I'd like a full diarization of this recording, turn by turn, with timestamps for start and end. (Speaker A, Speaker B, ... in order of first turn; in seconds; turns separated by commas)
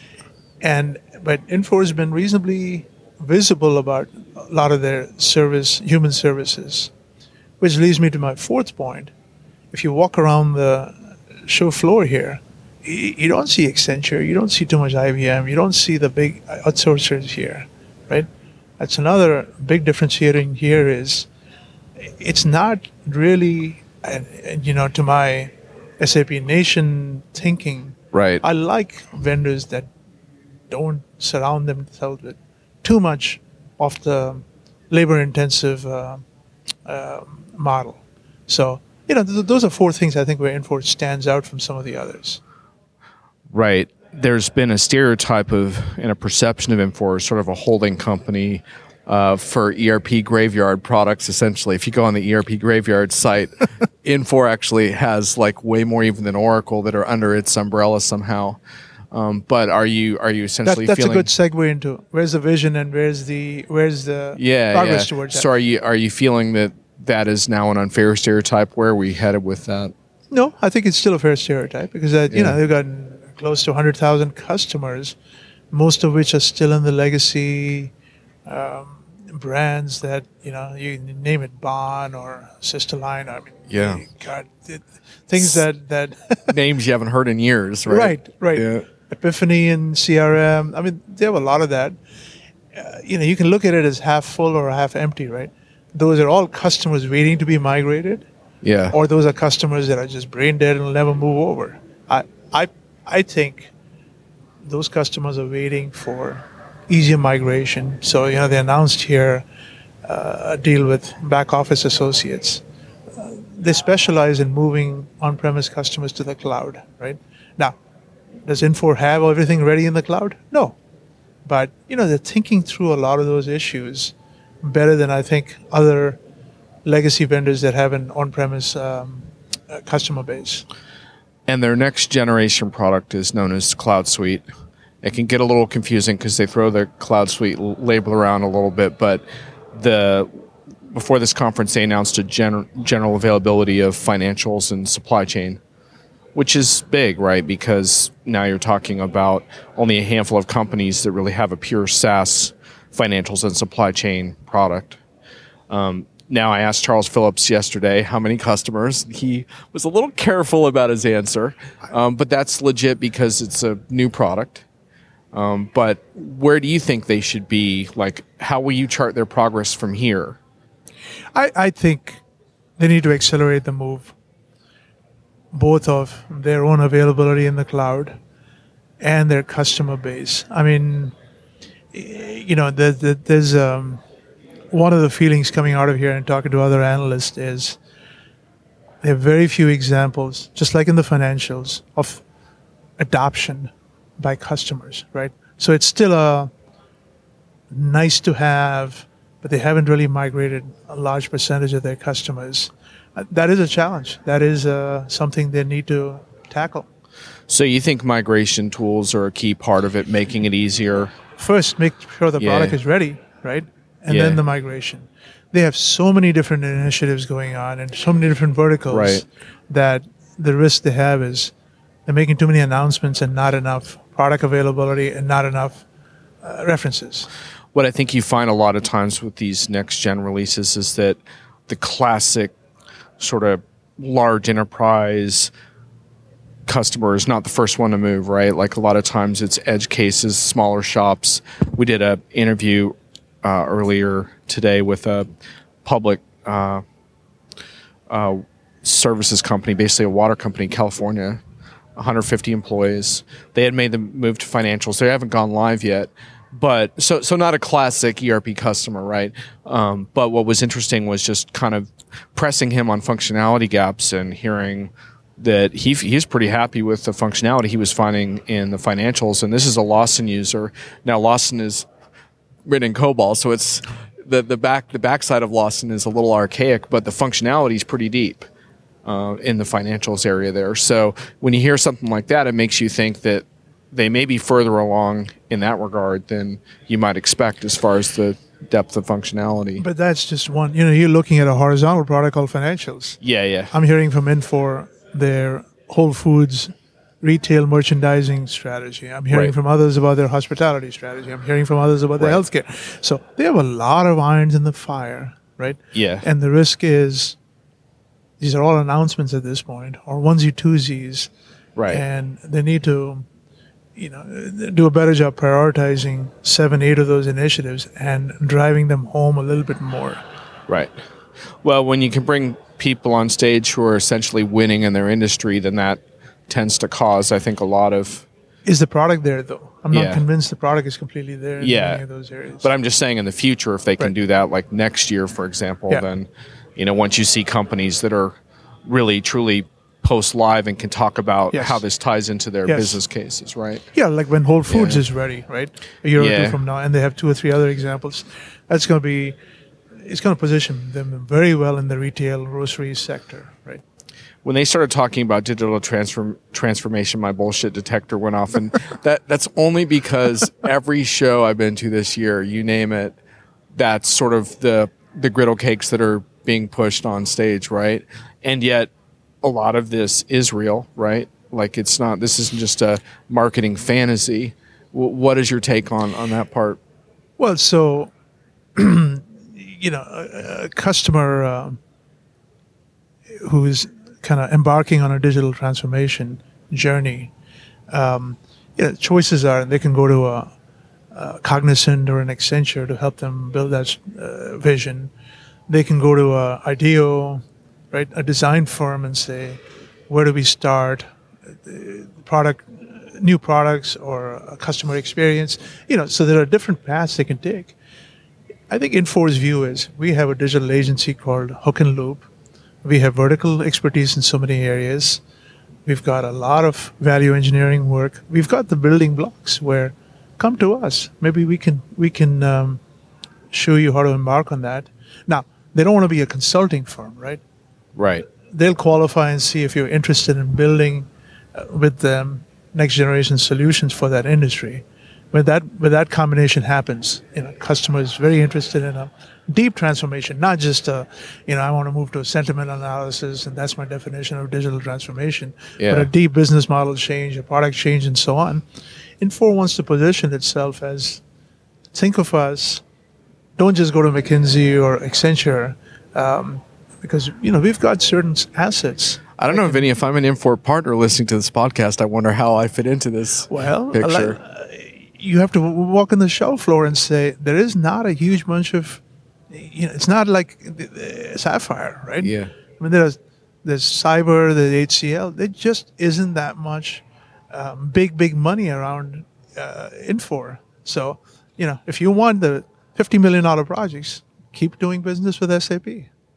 Speaker A: 0.6-6.9, Speaker A: 7.6-9.1, Speaker A: 9.7-18.3, Speaker A: 18.8-21.3, Speaker A: 22.1-29.9, Speaker B: 28.1-28.4, Speaker A: 30.7-36.2, Speaker A: 36.9-42.4, Speaker B: 43.5-53.5, Speaker B: 54.0-58.6, Speaker B: 59.1-61.3, Speaker A: 60.6-65.5, Speaker B: 64.4-69.9, Speaker A: 70.3-75.2, Speaker B: 72.3-72.6, Speaker A: 75.7-77.9, Speaker A: 78.5-86.5, Speaker B: 83.7-84.0, Speaker B: 86.5-88.8, Speaker A: 87.9-92.0, Speaker A: 92.8-98.3, Speaker B: 98.6-99.0, Speaker A: 98.9-103.7, Speaker A: 104.6-109.5, Speaker A: 110.0-112.6, Speaker A: 113.2-117.8, Speaker A: 118.5-120.8, Speaker A: 121.5-126.2, Speaker A: 126.8-130.7, Speaker B: 131.5-134.4, Speaker B: 135.0-140.3, Speaker B: 140.9-145.6, Speaker B: 146.3-155.0, Speaker B: 155.7-164.7, Speaker B: 165.3-170.4, Speaker A: 171.3-172.2, Speaker A: 172.8-174.2, Speaker A: 175.5-178.2, Speaker A: 179.0-181.1, Speaker A: 181.9-184.0, Speaker A: 184.7-187.8, Speaker A: 189.0-192.2, Speaker A: 193.0-196.5, Speaker A: 197.7-206.9, Speaker B: 207.5-211.1, Speaker A: 211.4-221.5, Speaker B: 212.4-212.8, Speaker B: 214.1-214.4, Speaker B: 218.9-219.2, Speaker A: 222.1-225.8, Speaker A: 226.4-227.3, Speaker B: 227.7-232.5, Speaker B: 233.2-235.5, Speaker B: 236.7-245.3, Speaker B: 245.8-246.8, Speaker B: 248.1-251.4, Speaker B: 252.0-271.9, Speaker B: 272.7-278.5, Speaker B: 279.1-289.8, Speaker A: 289.8-293.2, Speaker B: 293.2-293.7, Speaker A: 293.7-307.4, Speaker B: 305.9-306.3, Speaker A: 308.4-311.3, Speaker B: 311.8-312.0, Speaker A: 311.9-313.3, Speaker A: 314.0-320.2, Speaker B: 321.6-328.3, Speaker A: 328.7-332.7, Speaker B: 329.9-330.2, Speaker B: 331.6-332.0, Speaker B: 332.6-343.8, Speaker A: 341.5-341.8, Speaker A: 342.7-343.0, Speaker A: 343.9-349.4, Speaker B: 344.7-345.0, Speaker B: 346.2-346.6, Speaker A: 350.0-353.8, Speaker B: 354.4-363.2, Speaker B: 363.7-368.9, Speaker B: 369.4-376.8, Speaker A: 377.4-378.1, Speaker A: 378.8-381.8, Speaker A: 383.4-387.3, Speaker A: 387.9-390.5, Speaker A: 391.1-395.1, Speaker A: 395.7-401.1, Speaker A: 401.6-407.8, Speaker A: 408.7-412.3, Speaker A: 412.8-415.2, Speaker A: 415.9-422.8, Speaker A: 423.5-427.4, Speaker B: 428.0-428.2, Speaker A: 428.5-448.6, Speaker B: 445.8-446.1, Speaker A: 449.2-451.2, Speaker A: 451.9-452.8, Speaker A: 453.6-459.9, Speaker B: 459.4-464.4, Speaker A: 463.5-486.1, Speaker B: 472.2-472.5